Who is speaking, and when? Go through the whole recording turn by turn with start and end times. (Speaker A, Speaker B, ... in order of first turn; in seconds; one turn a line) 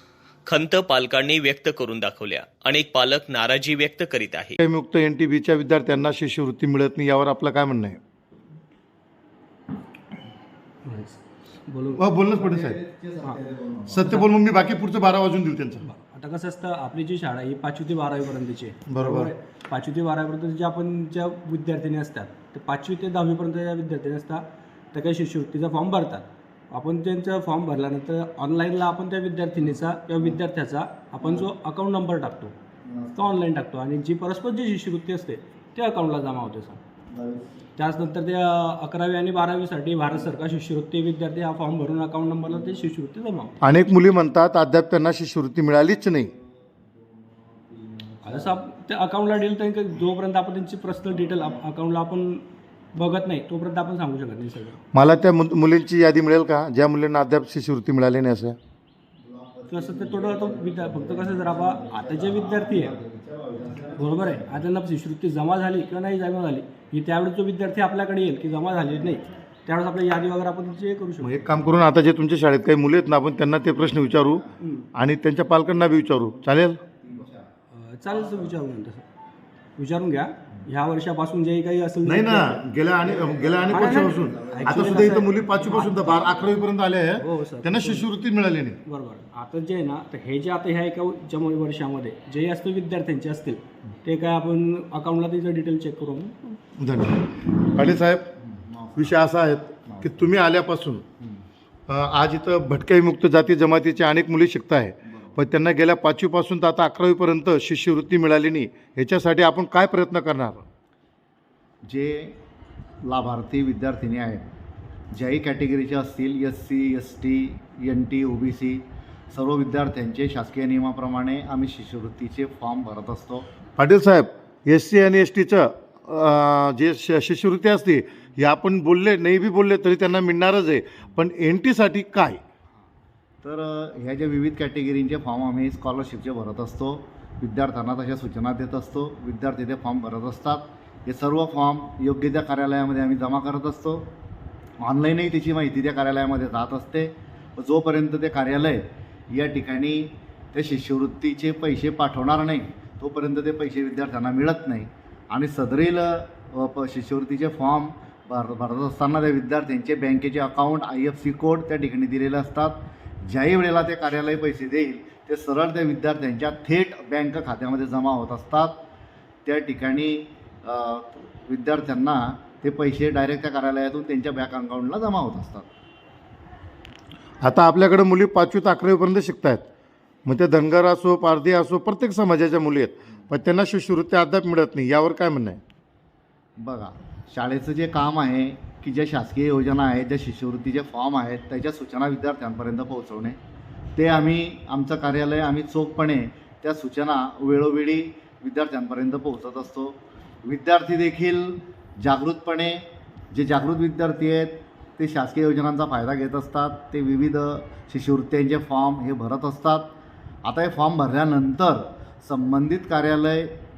Speaker A: 0.5-4.6
Speaker B: 4.6-8.0
Speaker C: 10.8-12.0
Speaker B: 12.0-12.8
Speaker D: 12.3-14.2
Speaker B: 13.9-15.8
Speaker C: 15.8-32.5
Speaker B: 18.9-19.3
Speaker D: 29.6-30.4
Speaker D: 31.2-31.5
Speaker D: 32.9-33.4
Speaker C: 33.1-36.8
Speaker D: 37.1-37.6
Speaker C: 37.8-43.5
Speaker D: 42.5-43.0
Speaker B: 43.6-46.3
Speaker D: 46.2-48.6
Speaker C: 48.2-54.8
Speaker D: 51.1-51.6
Speaker B: 54.9-58.6
Speaker D: 59.2-64.6
Speaker C: 59.7-62.9
Speaker C: 64.0-71.5
Speaker D: 68.7-69.3
Speaker B: 71.2-74.4
Speaker D: 73.6-74.6
Speaker C: 74.6-74.9
Speaker B: 75.0-76.8
Speaker D: 76.3-77.5
Speaker C: 77.7-79.0
Speaker D: 78.1-78.6
Speaker C: 79.8-82.7
Speaker B: 82.0-88.8
Speaker D: 83.0-86.6
Speaker C: 83.7-86.4
Speaker C: 87.2-88.1
Speaker C: 88.8-96.6
Speaker B: 96.8-98.3
Speaker D: 98.4-99.2
Speaker B: 99.0-101.0
Speaker D: 99.9-100.3
Speaker D: 101.2-101.5
Speaker B: 101.9-110.7
Speaker D: 111.8-112.4
Speaker D: 113.0-114.5
Speaker D: 115.1-123.5
Speaker B: 123.8-132.4
Speaker D: 133.4-144.1
Speaker D: 144.8-168.8
Speaker D: 169.4-175.7
Speaker B: 177.4-179.7
Speaker B: 180.2-185.6
Speaker D: 186.6-193.4
Speaker D: 194.0-213.6